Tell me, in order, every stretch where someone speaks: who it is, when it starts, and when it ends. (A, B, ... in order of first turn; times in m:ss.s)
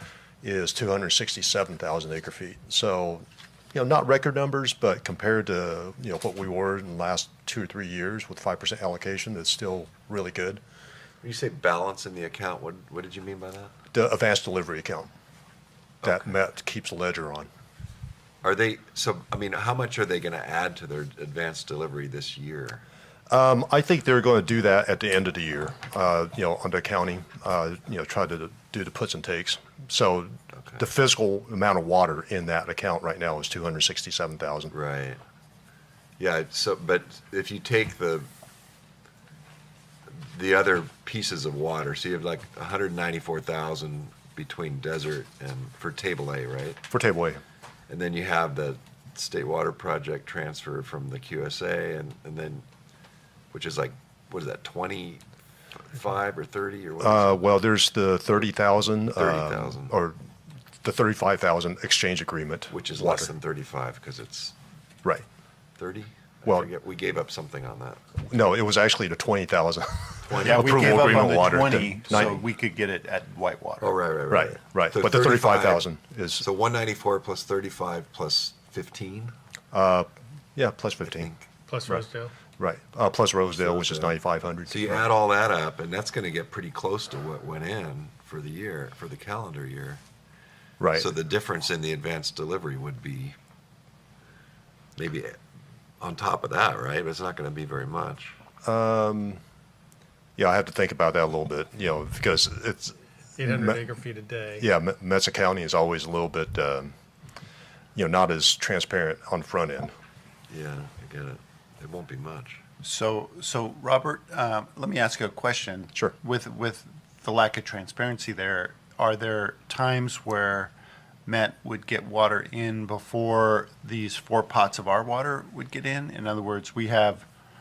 0:00.4-0:10.6 A
0:11.2-0:13.7 B
0:13.9-0:15.1 A
0:16.0-0:17.5 A
0:18.4-0:22.8 B
0:23.3-0:34.7 A
0:34.7-0:35.2 B
0:36.2-0:38.3 B
0:40.1-0:46.8 B
0:46.9-0:47.4 A
0:47.9-0:52.6 B
0:53.5-0:55.2 B
0:55.8-0:57.4 B
0:57.0-1:00.2 A
0:59.2-0:59.9 B
1:00.8-1:03.3 A
1:02.7-1:04.5 B
1:05.8-1:08.0 B
1:08.3-1:12.4 A
1:10.3-1:11.2 B
1:10.3-1:13.9 C
1:13.8-1:15.8 B
1:14.3-1:16.4 A
1:16.4-1:19.3 B
1:19.7-1:21.3 A
1:21.7-1:22.3 D
1:22.6-1:25.0 A
1:23.5-1:30.0 B
1:30.8-1:31.1 A
1:30.9-1:33.4 B
1:35.0-1:35.4 B
1:36.0-1:38.3 B
1:38.6-1:39.4 A
1:40.4-1:43.8 A
1:43.4-1:44.6 D
1:44.6-1:46.9 A
1:47.9-1:49.9 A
1:50.5-1:52.6 B
1:52.8-2:00.7 C
2:01.2-2:07.2 C